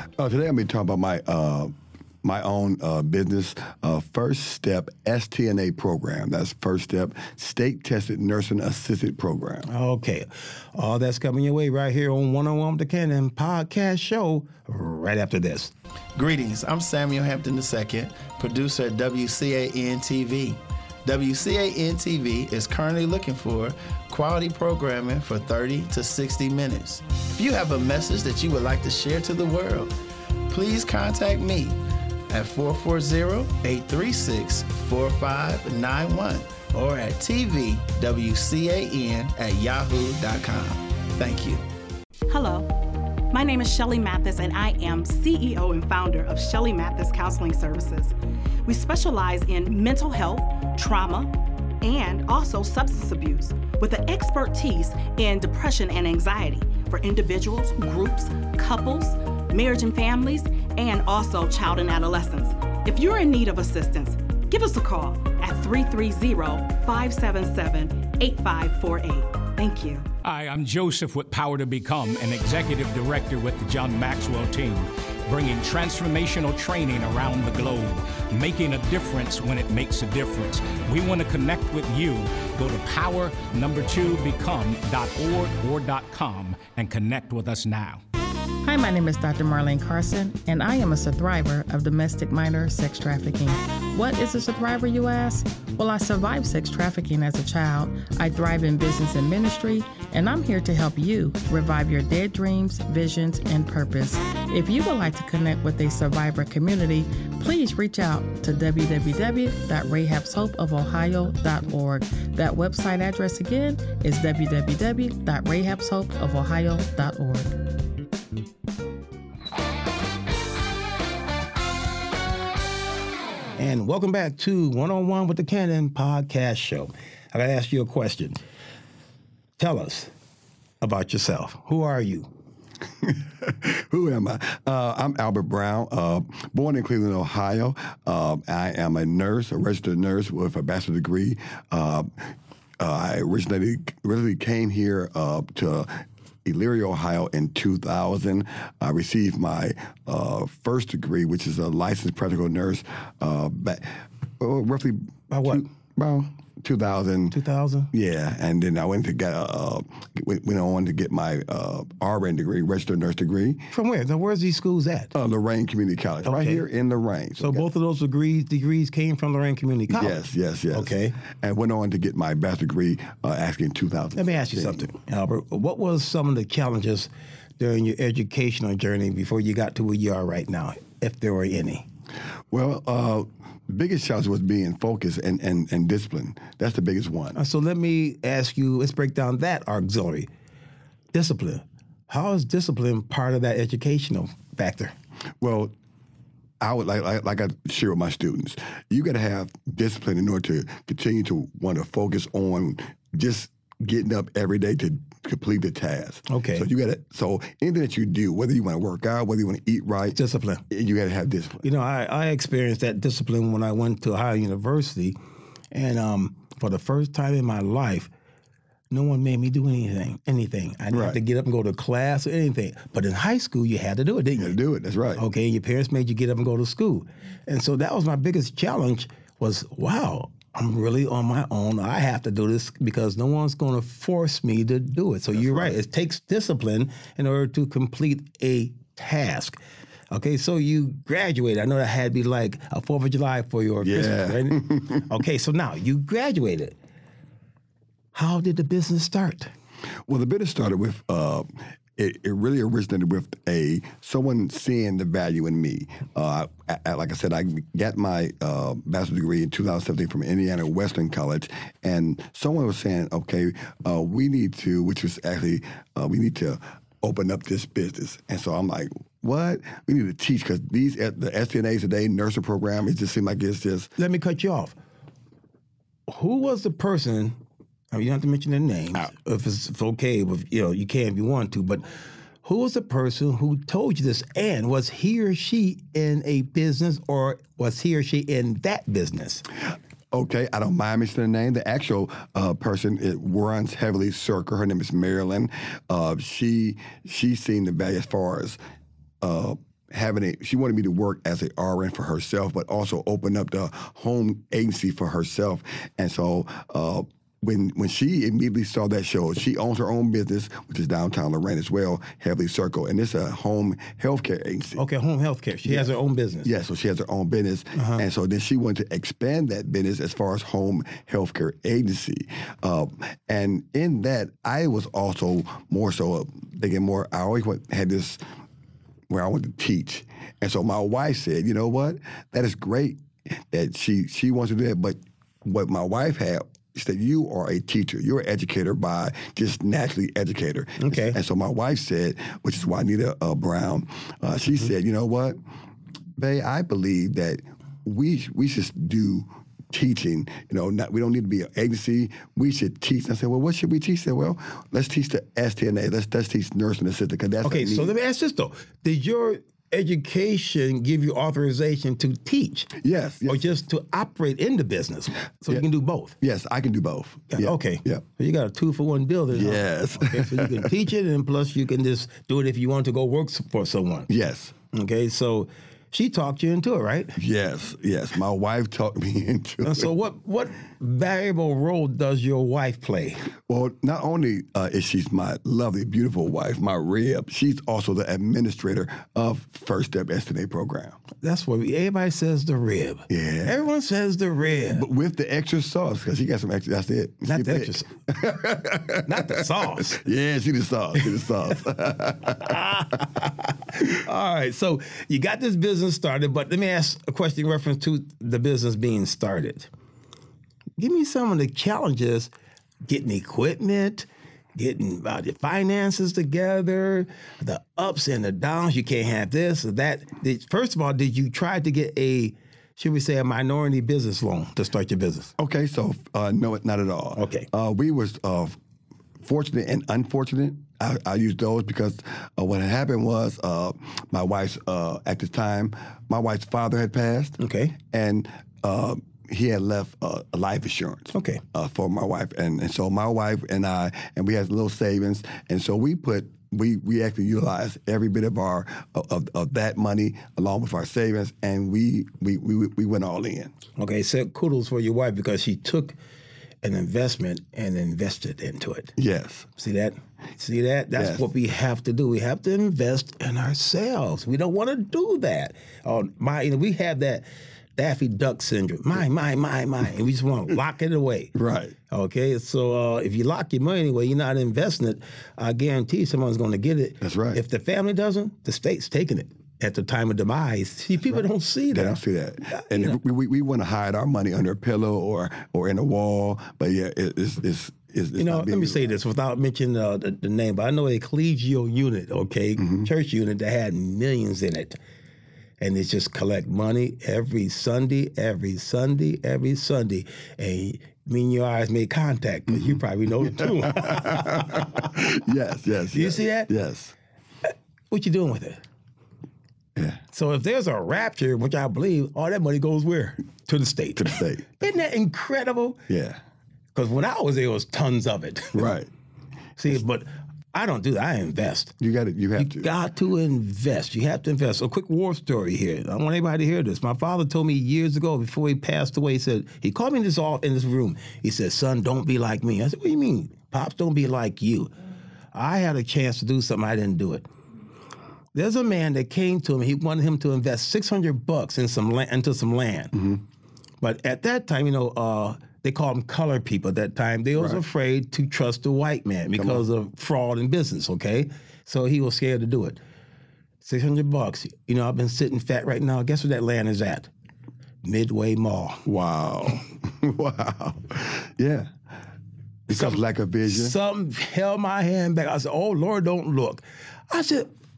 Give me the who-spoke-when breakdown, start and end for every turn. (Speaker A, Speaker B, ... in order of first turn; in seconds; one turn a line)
Speaker A: 0.1-9.7
Speaker B: 9.7-15.7
Speaker C: 16.1-29.9
Speaker C: 30.5-41.6
Speaker D: 42.3-42.7
Speaker D: 43.3-48.1
Speaker D: 48.6-70.1
Speaker E: 70.2-88.0
Speaker F: 88.6-117.6
Speaker B: 123.6-128.4
Speaker B: 129.6-130.1
Speaker B: 130.8-132.3
Speaker A: 133.0-157.4
Speaker B: 155.3-155.7
Speaker B: 157.3-157.9
Speaker A: 157.9-163.7
Speaker B: 163.7-165.1
Speaker A: 165.1-167.7
Speaker B: 166.2-166.6
Speaker B: 167.4-170.2
Speaker A: 169.9-174.9
Speaker B: 170.7-171.1
Speaker B: 174.2-181.8
Speaker A: 182.5-187.4
Speaker B: 187.3-190.3
Speaker B: 191.1-194.9
Speaker A: 195.4-195.7
Speaker A: 196.6-210.2
Speaker B: 206.3-206.7
Speaker B: 210.1-210.6
Speaker A: 210.7-211.6
Speaker B: 211.6-215.2
Speaker B: 215.7-218.1
Speaker B: 218.9-224.6
Speaker A: 220.9-221.2
Speaker A: 224.4-225.2
Speaker B: 225.2-239.6
Speaker A: 235.3-235.7
Speaker B: 240.1-246.8
Speaker A: 243.8-245.1
Speaker B: 248.1-249.5
Speaker A: 250.1-273.9
Speaker B: 274.0-274.7
Speaker B: 276.1-277.4
Speaker B: 277.9-281.9
Speaker B: 282.4-289.4
Speaker A: 290.1-298.6
Speaker A: 299.2-314.8
Speaker B: 314.8-316.5
Speaker A: 316.4-328.2
Speaker B: 317.8-318.0
Speaker A: 329.1-345.4
Speaker B: 340.8-341.2
Speaker A: 346.2-357.9
Speaker B: 357.4-362.7
Speaker A: 362.8-363.4
Speaker B: 363.3-366.1
Speaker A: 366.2-368.0
Speaker B: 367.3-374.1
Speaker A: 369.3-370.7
Speaker A: 374.1-374.5
Speaker B: 374.7-377.2
Speaker A: 377.1-379.9
Speaker B: 379.6-383.2
Speaker A: 383.5-391.0
Speaker B: 391.2-394.8
Speaker A: 393.1-393.6
Speaker A: 394.7-402.6
Speaker B: 397.2-397.9
Speaker B: 399.1-400.0
Speaker B: 402.3-409.7
Speaker B: 410.8-412.3
Speaker B: 412.8-425.3
Speaker A: 425.4-428.6
Speaker B: 427.2-427.5
Speaker A: 429.2-453.5
Speaker B: 437.4-437.8
Speaker B: 441.1-441.4
Speaker B: 453.8-455.9
Speaker B: 456.6-458.9
Speaker A: 459.0-459.5
Speaker B: 459.6-467.2
Speaker A: 460.9-461.2
Speaker B: 467.8-471.3
Speaker A: 471.3-471.7
Speaker B: 471.9-482.0
Speaker A: 477.0-477.4
Speaker A: 481.7-488.9
Speaker B: 482.5-483.0
Speaker B: 488.2-494.8
Speaker A: 492.6-492.9
Speaker B: 495.6-504.9
Speaker A: 502.5-506.9
Speaker B: 505.9-506.5
Speaker B: 507.9-508.6
Speaker A: 509.8-510.0
Speaker B: 510.1-515.8
Speaker A: 514.0-514.5
Speaker A: 515.9-516.2
Speaker B: 516.7-518.7
Speaker A: 518.5-518.9
Speaker B: 519.6-521.7
Speaker A: 521.8-522.7
Speaker B: 522.4-534.7
Speaker B: 535.3-537.3
Speaker B: 538.3-542.9
Speaker A: 542.9-543.2
Speaker B: 543.8-552.8
Speaker A: 549.3-549.6
Speaker B: 553.6-557.1
Speaker B: 557.8-558.8
Speaker A: 558.8-561.7
Speaker A: 562.7-563.8
Speaker B: 562.7-567.5